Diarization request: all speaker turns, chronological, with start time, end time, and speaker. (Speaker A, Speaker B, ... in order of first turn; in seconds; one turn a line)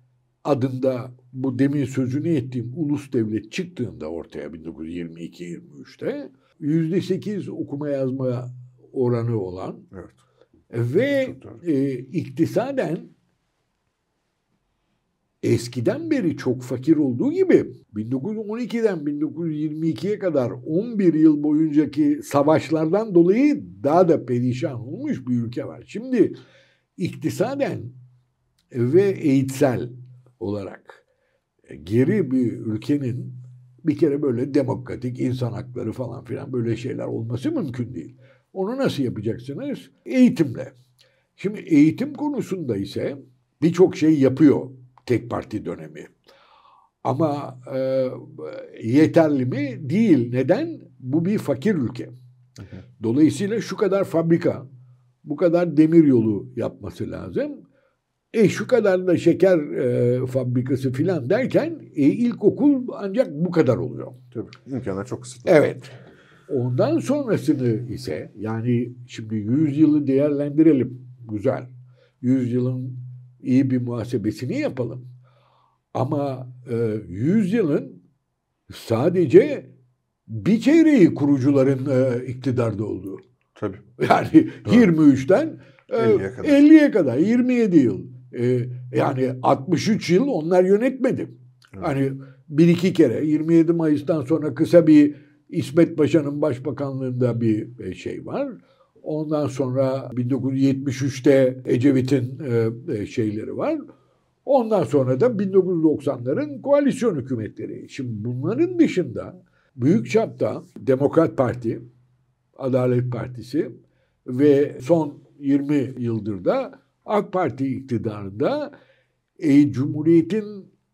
Speaker A: 0.4-9.9
Speaker B: 9.9-10.2
Speaker A: 10.7-13.1
Speaker B: 11.3-11.6
Speaker A: 15.4-26.4
Speaker A: 27.0-27.9
Speaker A: 28.7-31.0
Speaker A: 31.7-40.7
Speaker A: 41.4-46.1
Speaker A: 47.0-52.1
Speaker A: 53.0-54.7
Speaker A: 55.2-57.6
Speaker A: 58.3-64.2
Speaker B: 64.3-65.6
Speaker A: 65.5-65.9
Speaker A: 66.5-71.7
Speaker A: 72.2-75.1
Speaker A: 76.0-78.0
Speaker A: 78.7-79.7
Speaker A: 80.3-83.2
Speaker B: 83.6-83.8
Speaker A: 84.0-103.8
Speaker B: 84.7-84.9
Speaker B: 86.0-86.6
Speaker A: 104.5-111.8
Speaker A: 112.6-113.7
Speaker A: 114.3-118.7
Speaker A: 119.4-120.7